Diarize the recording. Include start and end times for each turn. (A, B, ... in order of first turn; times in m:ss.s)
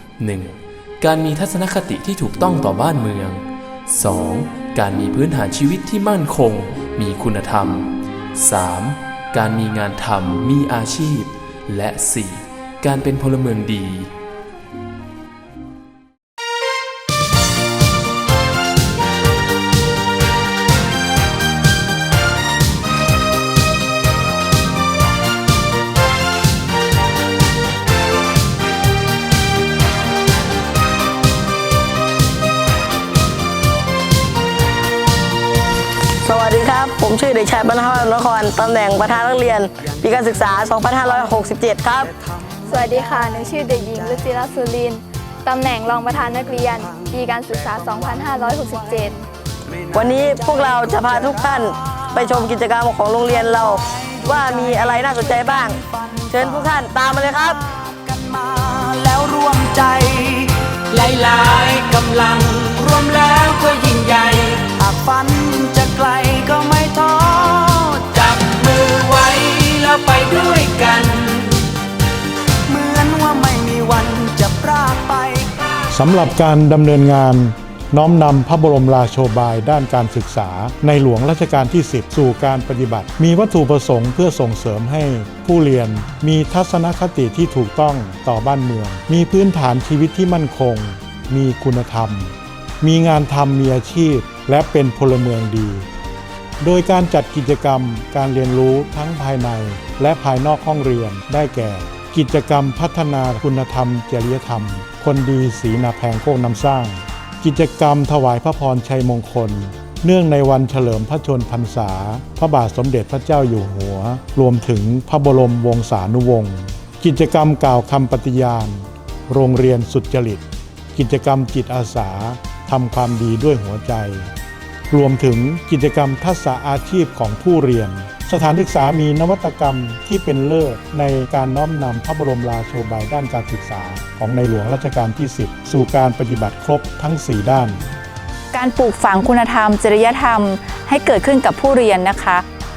0:00.2-0:14.1 A
0:36.2-0:42.1 B
0:40.4-0:44.8 C
0:42.7-0:49.2 D
0:46.6-0:49.1 C
0:49.7-1:11.6 C
0:49.9-0:57.6 B
1:12.7-1:15.6 C
1:15.9-1:35.9 E
1:36.6-2:04.3 E
2:04.9-2:17.8 E
2:18.5-2:22.4 F